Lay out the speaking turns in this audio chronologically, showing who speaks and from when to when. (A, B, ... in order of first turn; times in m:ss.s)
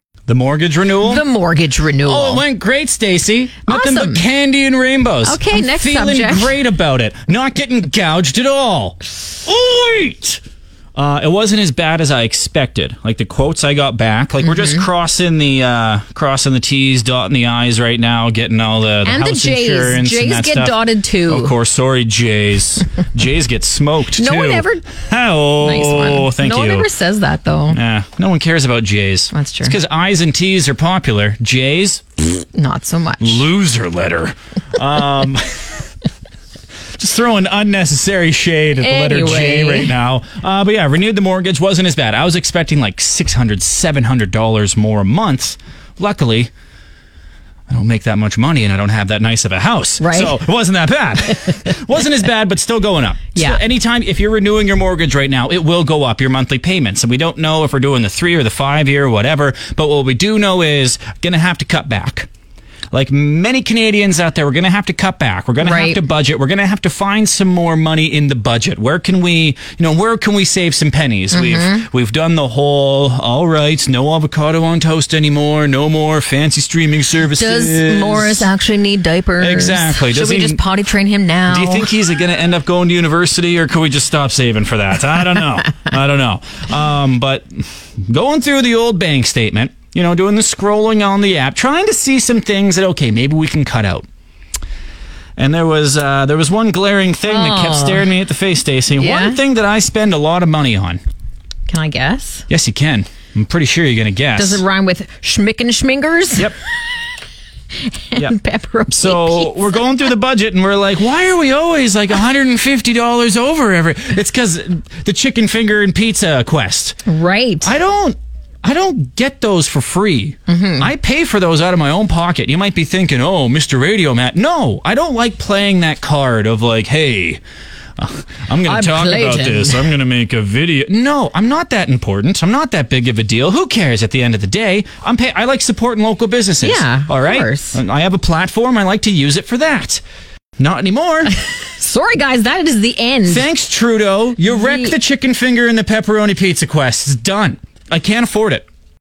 0:00.3-0:01.2 A
0:01.1-0:02.4 B
0:02.0-0:10.4 A
0:03.7-0:04.2 B
0:05.2-0:06.6 B
0:10.9-0:26.9 A
0:19.0-0:21.5 B
0:24.2-0:24.8 B
0:25.6-0:27.8 B
0:27.7-0:32.3 A
0:29.3-0:29.7 B
0:32.5-0:33.4 B
0:33.2-0:35.8 A
0:37.0-0:46.5 A
0:38.8-0:39.9 B
0:47.7-1:02.3 A
0:50.0-0:50.4 B
1:02.9-1:18.5 A
1:05.6-1:06.0 B
1:11.3-1:11.8 B
1:17.4-1:21.9 B
1:19.4-1:20.6 A
1:21.5-1:34.1 A
1:35.4-1:41.0 A
1:37.3-1:38.1 B
1:39.0-1:39.4 B
1:41.7-1:42.4 B
1:42.5-1:44.6 A
1:44.4-1:46.4 B
1:48.1-1:49.5 B
1:48.9-1:57.0 A
1:57.1-1:57.7 B
1:57.6-2:07.4 A
2:00.5-2:00.9 B
2:08.0-2:20.0 A
2:08.7-2:09.8 B
2:16.6-2:17.8 B
2:20.6-2:21.3 A
2:21.8-2:23.5 B
2:23.3-2:28.7 A
2:24.5-2:24.9 B